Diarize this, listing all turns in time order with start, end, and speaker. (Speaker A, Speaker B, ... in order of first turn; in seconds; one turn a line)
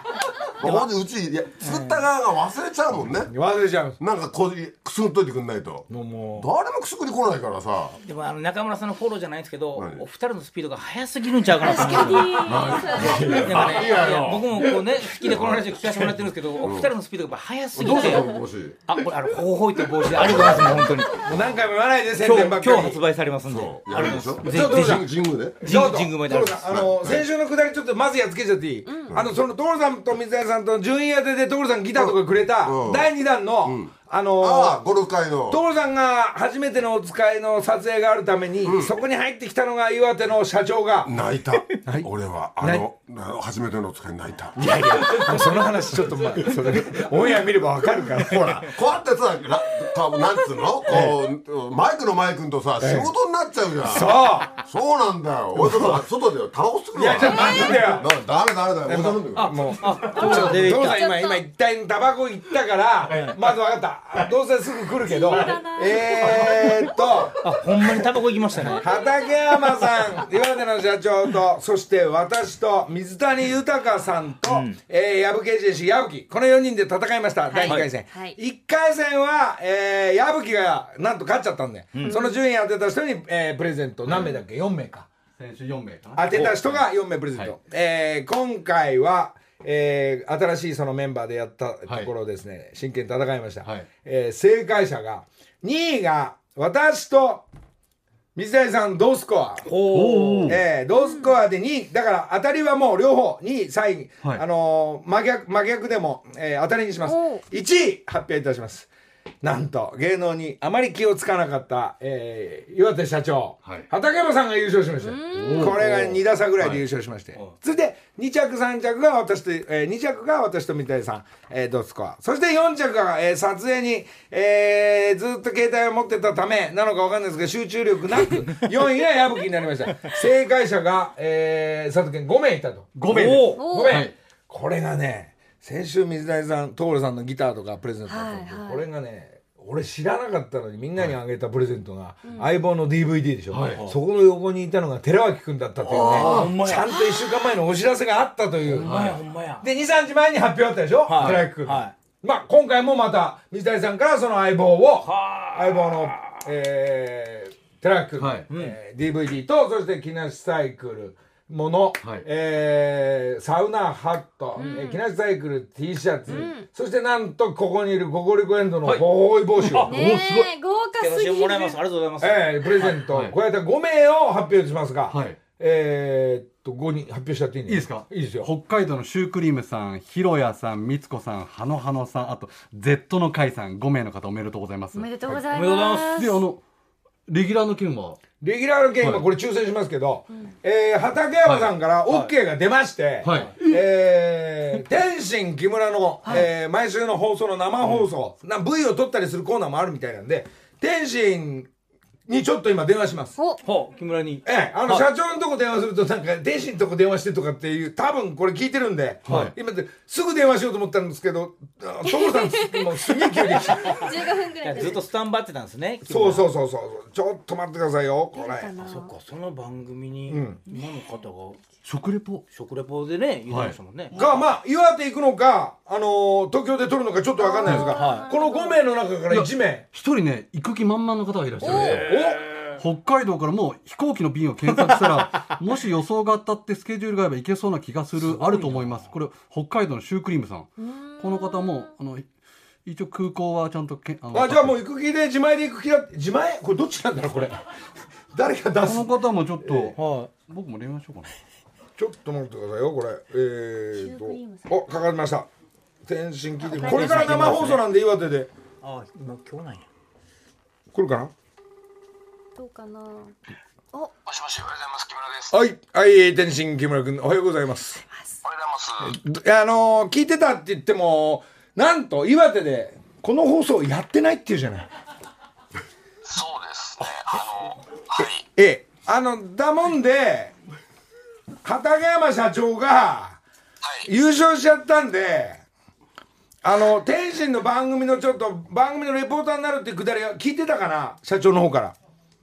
Speaker A: 0.5-3.3
Speaker B: 1.6-1.9
Speaker B: 3.3-4.0
Speaker A: 4.0-8.0
Speaker B: 5.9-6.5
Speaker C: 8.0-12.7
Speaker A: 9.7-10.0
Speaker D: 11.6-13.8
Speaker A: 11.9-14.4
Speaker B: 13.0-14.4
Speaker C: 13.2-18.3
Speaker A: 15.2-15.8
Speaker A: 16.6-16.9
Speaker A: 17.7-18.8
Speaker C: 18.9-21.2
Speaker A: 20.1-20.9
Speaker B: 21.1-23.0
Speaker C: 22.2-25.1
Speaker A: 23.4-25.6
Speaker B: 24.4-25.1
Speaker C: 25.6-26.7
Speaker B: 25.6-34.8
Speaker A: 26.6-27.3
Speaker D: 28.9-29.1
Speaker A: 29.1-29.3
Speaker A: 31.9-33.1
Speaker A: 33.6-35.6
Speaker B: 35.5-41.1
Speaker A: 38.6-38.9
Speaker A: 41.0-44.6
Speaker B: 42.6-42.9
Speaker B: 44.5-48.7
Speaker A: 48.1-59.5
Speaker B: 50.9-51.2
Speaker B: 52.8-53.1
Speaker B: 53.8-54.5
Speaker B: 55.6-56.0
Speaker B: 56.9-58.1
Speaker D: 57.2-57.9
Speaker B: 58.9-67.4
Speaker C: 59.4-61.1
Speaker D: 60.1-61.5
Speaker C: 63.1-63.4
Speaker D: 65.0-66.9
Speaker C: 67.4-68.8
Speaker D: 68.7-69.9
Speaker B: 68.7-85.1
Speaker C: 74.4-74.8
Speaker D: 77.5-78.3
Speaker D: 82.0-82.4
Speaker E: 84.1-84.3
Speaker E: 85.4-86.8
Speaker B: 86.2-97.5
Speaker E: 91.9-92.1
Speaker B: 98.3-99.7
Speaker C: 99.7-100.6
Speaker E: 99.8-100.6
Speaker B: 100.5-108.9
Speaker D: 100.9-101.3
Speaker D: 107.1-107.4
Speaker B: 109.4-148.9
Speaker D: 115.0-115.8
Speaker E: 115.3-116.2
Speaker E: 132.9-134.1
Speaker C: 133.1-133.6
Speaker D: 133.6-134.0
Speaker D: 138.1-138.8
Speaker E: 143.5-143.8
Speaker C: 145.9-146.9
Speaker E: 145.9-146.5
Speaker C: 148.7-149.6
Speaker E: 148.8-149.2
Speaker B: 149.6-169.9
Speaker C: 151.1-151.9
Speaker E: 151.2-151.4
Speaker C: 155.0-156.3
Speaker E: 158.2-158.5
Speaker C: 158.5-158.8
Speaker D: 164.6-165.0
Speaker D: 166.3-166.7
Speaker C: 169.6-170.1
Speaker E: 169.7-170.5
Speaker D: 169.8-171.8
Speaker C: 171.0-172.9
Speaker B: 172.2-178.5
Speaker E: 172.8-173.3
Speaker E: 175.1-175.4
Speaker E: 177.7-185.4
Speaker D: 184.9-186.4
Speaker C: 185.5-186.2
Speaker E: 186.1-186.6
Speaker E: 187.3-188.2
Speaker B: 188.4-201.7
Speaker E: 189.0-189.2
Speaker E: 191.4-191.7
Speaker E: 193.2-193.6
Speaker B: 202.3-203.3
Speaker D: 203.4-203.6
Speaker C: 203.6-205.1
Speaker B: 204.4-214.0
Speaker E: 209.2-209.5
Speaker D: 212.0-215.1
Speaker C: 213.8-216.5
Speaker B: 216.0-218.7
Speaker D: 218.3-219.1
Speaker C: 218.8-221.6
Speaker B: 220.3-220.6
Speaker E: 221.8-222.4
Speaker C: 222.5-224.1
Speaker E: 223.5-224.5
Speaker B: 224.2-229.8
Speaker D: 227.4-228.8
Speaker C: 227.7-228.3
Speaker E: 229.3-232.1
Speaker D: 231.6-232.0
Speaker C: 231.6-232.8
Speaker B: 231.6-232.4
Speaker E: 232.8-242.3
Speaker C: 234.7-235.6
Speaker C: 238.2-239.0
Speaker D: 240.8-241.9
Speaker E: 242.8-244.8
Speaker B: 244.3-247.6
Speaker B: 248.3-249.9
Speaker E: 248.8-251.3
Speaker C: 249.9-250.3
Speaker B: 252.0-255.5
Speaker D: 254.0-254.8
Speaker B: 256.1-258.5
Speaker D: 256.7-257.8
Speaker C: 256.7-257.8
Speaker C: 258.8-259.9
Speaker B: 260.9-261.3
Speaker D: 262.6-263.3
Speaker F: 264.2-265.6
Speaker B: 265.5-268.0
Speaker D: 268.0-268.4
Speaker F: 268.4-269.1
Speaker B: 269.0-274.9
Speaker F: 276.2-278.4
Speaker B: 278.5-280.5
Speaker B: 281.6-283.4
Speaker F: 283.8-284.1
Speaker B: 284.1-285.6
Speaker B: 286.6-292.0